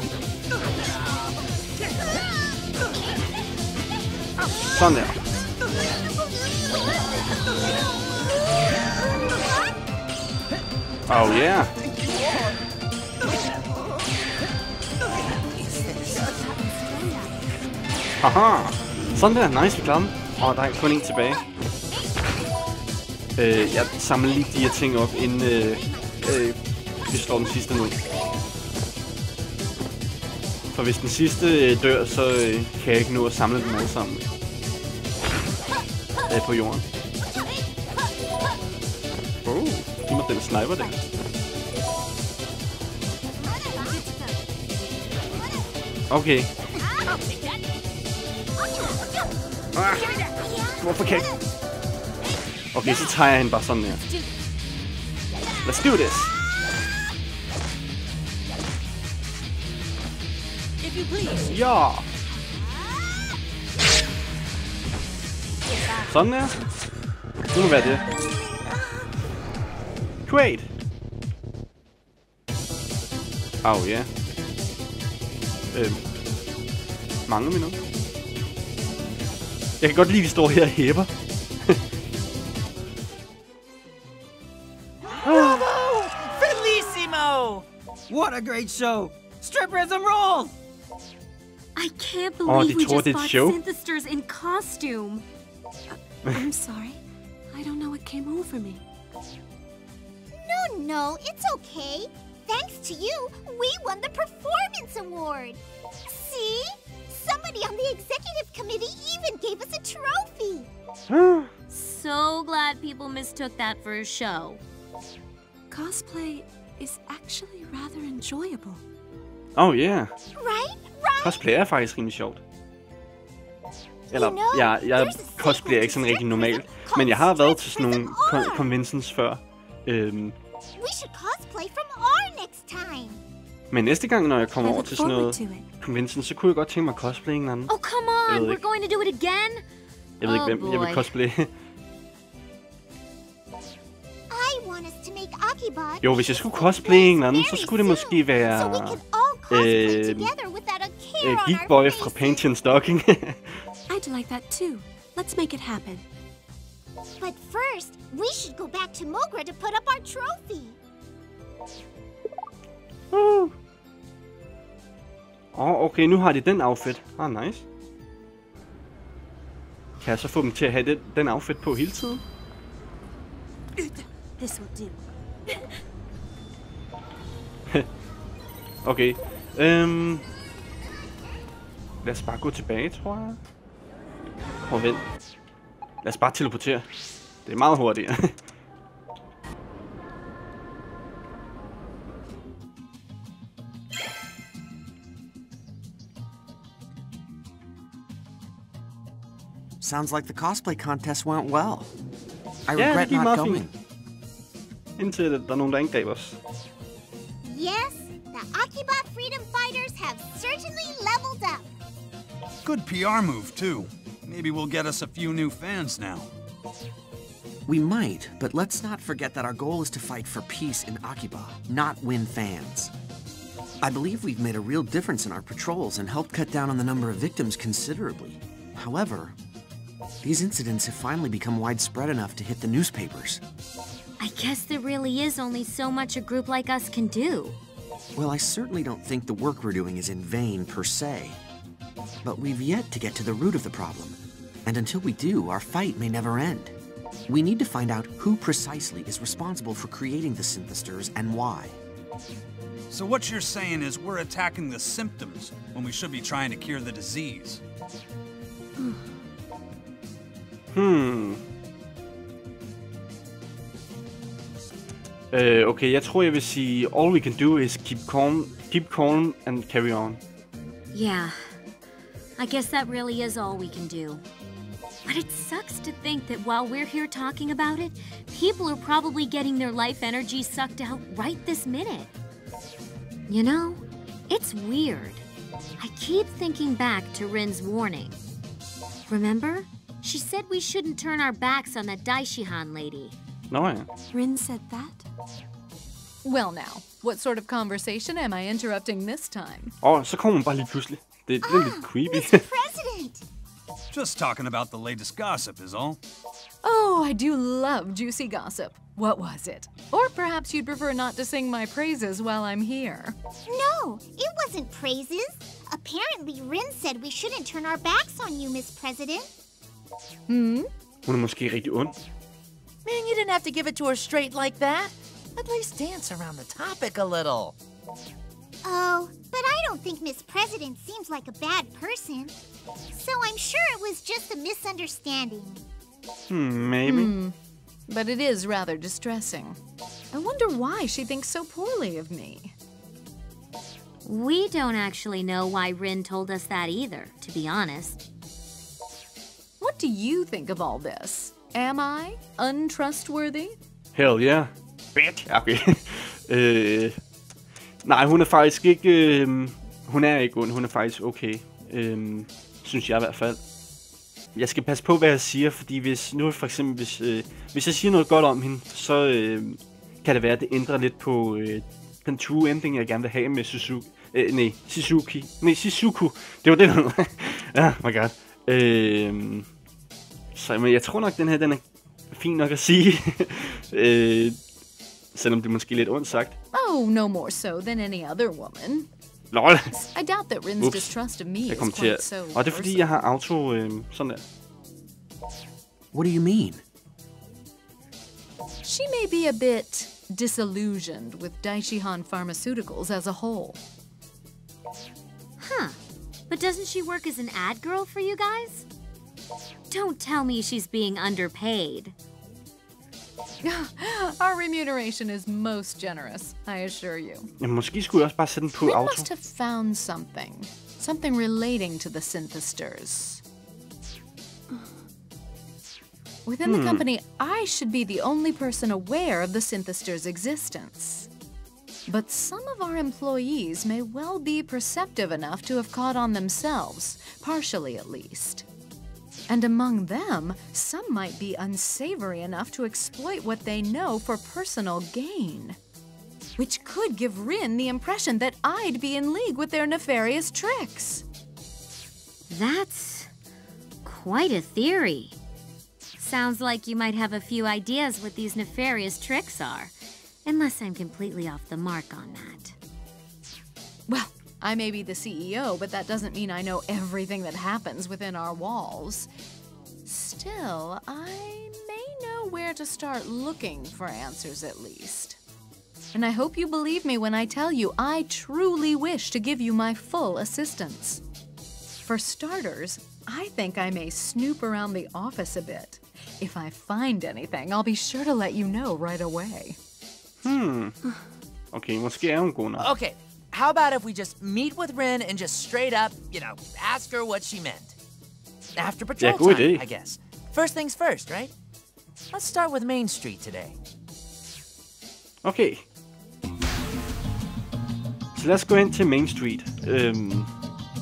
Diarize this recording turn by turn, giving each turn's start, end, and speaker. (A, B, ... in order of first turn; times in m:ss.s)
0:04.6-0:05.2 A
0:11.1-0:11.7 A
0:18.2-0:21.4 A
0:23.4-0:26.6 A
0:27.1-0:28.0 A
0:30.7-0:34.2 A
0:36.3-0:36.8 A
0:39.4-0:41.0 A
0:43.4-0:44.4 B
0:46.1-0:46.5 A
0:46.8-0:47.2 B
0:48.6-0:49.1 B
0:49.8-0:50.1 A
0:50.1-0:51.4 B
0:50.8-0:51.3 A
0:52.7-0:54.0 A
0:55.6-0:56.3 A
1:01.5-1:02.0 A
1:06.1-1:06.6 A
1:07.5-1:08.0 A
1:10.3-1:10.7 A
1:13.6-1:14.1 A
1:15.7-1:16.0 A
1:17.3-1:17.8 A
1:19.8-1:21.1 A
1:25.2-1:27.6 C
1:25.3-1:25.6 A
1:28.1-1:30.5 D
1:31.8-1:35.2 E
1:32.4-1:33.6 A
1:35.9-1:37.0 F
1:37.5-1:38.8 F
1:40.3-1:50.7 B
1:51.1-1:51.5 A
1:51.7-1:54.6 E
1:55.7-1:58.8 F
1:59.6-2:00.1 A
2:00.3-2:01.4 B
2:01.2-2:02.4 A
2:04.1-2:08.7 B
2:04.1-2:10.4 A
2:10.8-2:13.2 B
2:13.7-2:17.7 A
2:14.6-2:15.7 F
2:17.7-2:19.6 E
2:18.3-2:18.6 A
2:20.2-2:21.1 E
2:20.2-2:21.5 A
2:24.3-2:32.5 B
2:26.0-2:30.3 A
2:31.2-2:33.6 A
2:33.9-2:36.0 F
2:37.2-2:40.8 B
2:43.1-2:43.5 A
2:45.5-2:47.6 A
2:50.0-2:52.2 A
2:53.8-2:55.7 F
2:58.8-3:00.3 A
3:02.0-3:03.4 A
3:04.7-3:05.0 A
3:06.0-3:06.9 A
3:07.4-3:08.3 A
3:19.8-3:21.9 G
3:22.7-3:23.7 G
3:22.8-3:23.6 A
3:25.0-3:26.4 A
3:27.4-3:31.7 B
3:32.6-3:36.3 H
3:37.7-3:42.9 G
3:43.8-3:49.3 G
3:50.2-3:53.4 G
3:54.2-3:57.6 E
3:58.2-4:01.4 G
4:02.2-4:06.7 G
4:07.3-4:11.8 G
4:12.9-4:17.6 H
4:20.7-4:21.4 A
4:25.3-4:30.2 A
4:30.9-4:31.5 E
4:32.4-4:34.2 E
4:35.1-4:42.1 E
4:43.3-4:45.2 E
4:45.8-4:48.2 E
4:49.1-4:53.2 E
4:53.5-4:53.9 A
4:54.1-4:55.1 F
4:56.2-4:59.7 I
4:59.8-5:02.4 A
5:01.4-5:03.2 B
5:03.9-5:06.0 H
5:06.6-5:13.2 I
5:13.5-5:19.3 B
5:20.3-5:20.7 I
5:21.1-5:22.0 A
5:22.8-5:27.6 C
5:28.6-5:32.4 B
5:32.9-5:35.7 B
5:36.3-5:37.1 A
5:36.8-5:37.4 I
5:37.9-5:39.6 I
5:40.1-5:42.5 I
5:44.0-5:48.0 E
5:49.6-5:53.6 I
5:54.0-5:57.0 A
5:57.8-6:03.4 A
6:04.4-6:19.5 A
6:20.3-6:24.4 A
6:25.1-6:26.4 A
6:26.5-6:28.9 I
6:29.3-6:29.7 A
6:29.7-6:33.0 I
6:30.6-6:31.0 A
6:31.5-6:34.2 A
6:35.9-6:36.6 G
6:38.6-6:43.6 I
6:45.4-6:45.8 E
6:46.3-6:48.7 E
6:49.7-6:52.0 E
6:53.4-6:57.3 I
6:57.4-6:59.1 A
6:58.6-7:03.2 I
7:06.3-7:11.1 I
7:06.4-7:06.8 A
7:11.9-7:18.4 I
7:19.3-7:25.6 I
7:26.4-7:31.0 I
7:32.3-7:33.1 E
7:33.8-7:35.2 E
7:36.0-7:39.7 E
7:40.2-7:42.6 E
7:43.9-7:49.1 I
7:49.8-7:55.2 I
7:55.9-8:01.0 I
8:01.8-8:09.6 I
8:10.2-8:10.8 A
8:11.5-8:12.7 A
8:12.6-8:17.8 C
8:18.6-8:21.3 C
8:19.0-8:19.6 A
8:22.1-8:23.6 C
8:25.2-8:25.6 A
8:28.2-8:30.3 A